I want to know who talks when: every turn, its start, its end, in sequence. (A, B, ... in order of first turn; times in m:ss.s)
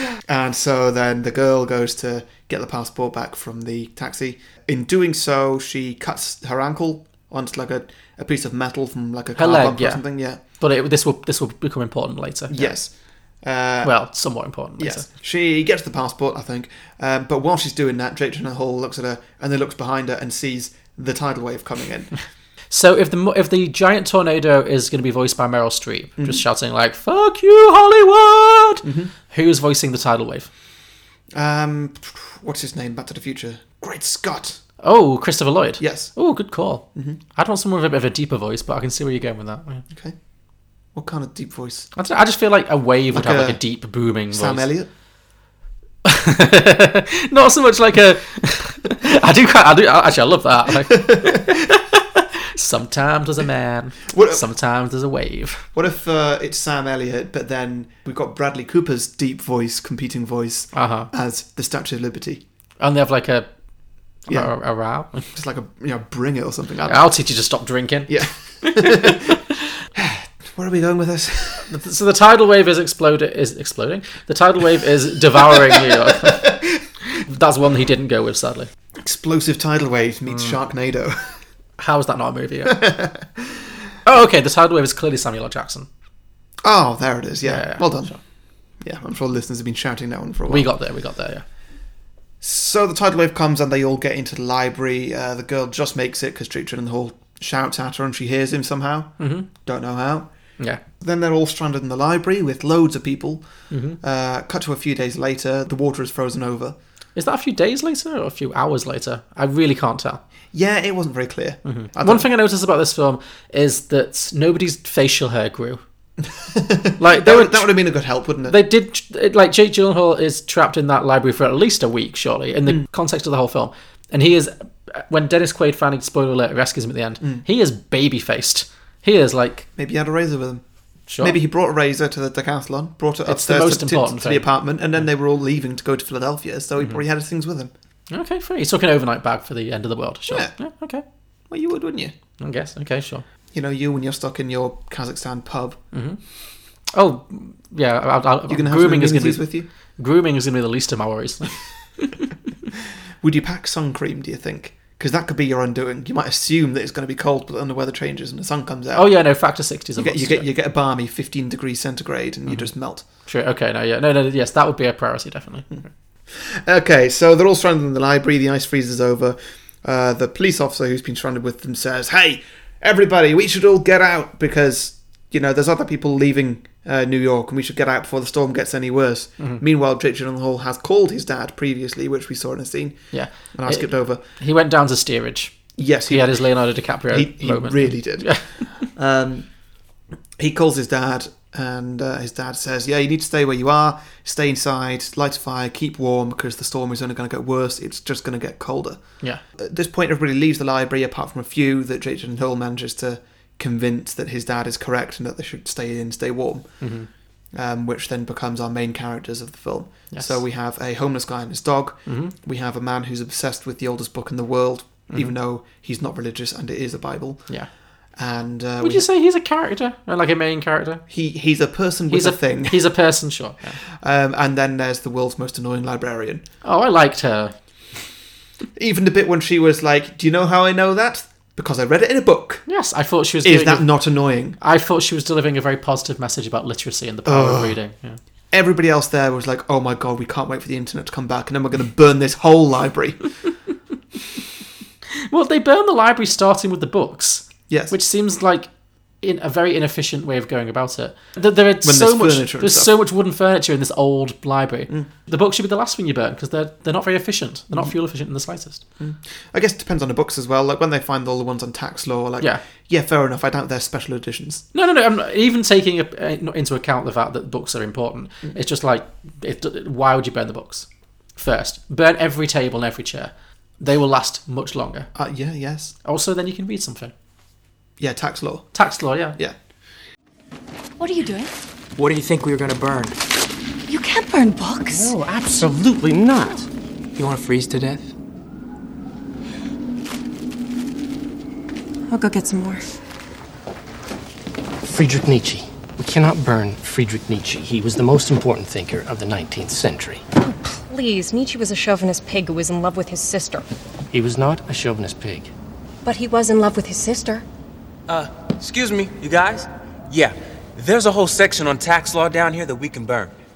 0:00.3-0:10.4 A
0:09.4-0:12.8 B
0:12.5-0:14.0 A
0:13.8-0:15.1 B
0:14.8-0:22.1 A
0:22.7-0:30.5 B
0:26.2-0:26.4 A
0:28.8-0:29.1 A
0:31.3-0:34.6 A
0:34.8-0:39.8 B
0:35.8-0:36.1 A
0:40.9-0:41.9 A
0:41.9-0:44.7 B
0:43.1-0:43.6 A
0:44.3-0:44.9 A
0:46.0-0:55.7 B
0:51.0-0:51.4 A
0:54.1-0:54.4 A
0:55.7-1:02.4 A
1:00.7-1:01.1 B
1:02.8-1:03.5 B
1:04.3-1:05.2 B
1:05.2-1:07.1 A
1:06.9-1:09.2 B
1:08.1-1:09.4 A
1:10.0-1:11.7 A
1:11.6-1:18.7 B
1:16.2-1:16.5 A
1:19.0-1:21.4 A
1:20.3-1:20.6 B
1:21.8-1:22.8 B
1:22.7-1:23.4 A
1:24.0-1:25.9 B
1:26.6-1:28.2 A
1:27.4-1:28.2 B
1:28.8-1:30.7 A
1:30.5-1:31.4 B
1:32.4-1:40.3 A
1:39.2-1:39.5 B
1:41.0-1:46.7 A
1:43.7-1:44.0 B
1:47.1-1:50.2 B
1:50.5-1:52.3 A
1:51.6-1:55.8 B
1:56.3-1:58.6 A
1:57.0-1:57.7 B
1:58.4-2:09.7 B
2:09.8-2:10.6 A
2:11.1-2:11.4 B
2:11.2-2:17.7 A
2:13.2-2:14.5 B
2:18.1-2:21.0 B
2:21.5-2:22.1 A
2:22.4-2:23.2 B
2:23.5-2:25.8 A
2:25.9-2:26.2 B
2:26.9-2:29.4 B
2:28.5-2:29.7 A
2:30.0-2:32.2 B
2:33.2-2:39.1 A
2:38.9-2:40.5 B
2:40.0-2:43.0 A
2:42.5-2:45.7 B
2:45.7-3:03.0 A
3:03.1-3:08.7 B
3:03.5-3:04.2 A
3:05.8-3:06.4 A
3:07.1-3:09.5 A
3:10.4-3:26.7 A
3:26.8-3:27.1 B
3:27.5-3:37.5 A
3:30.1-3:30.4 B
3:32.0-3:32.3 B
3:38.2-3:39.0 A
3:38.8-3:41.0 B
3:41.1-3:42.8 A
3:42.1-3:43.8 B
3:43.8-3:46.4 A
3:46.6-3:47.5 B
3:48.8-3:52.6 A
3:52.6-3:53.9 B
3:53.4-3:54.6 A
3:54.6-3:58.2 B
3:57.2-3:57.8 A
3:58.5-4:03.3 A
4:05.1-4:08.7 B
4:07.7-4:07.9 A
4:09.2-4:18.8 B
4:11.8-4:12.9 A
4:19.0-4:24.6 A
4:24.7-4:35.1 B
4:35.1-4:35.9 A
4:36.0-4:37.1 B
4:38.0-4:38.7 A
4:38.7-4:39.4 B
4:41.0-4:41.5 C
4:41.9-4:43.2 D
4:43.9-4:45.1 C
4:45.0-4:46.6 E
4:47.2-4:48.1 D
4:54.8-5:00.2 E
5:00.5-5:03.6 C
5:04.1-5:05.5 E
5:06.1-5:07.4 C
5:08.1-5:13.3 F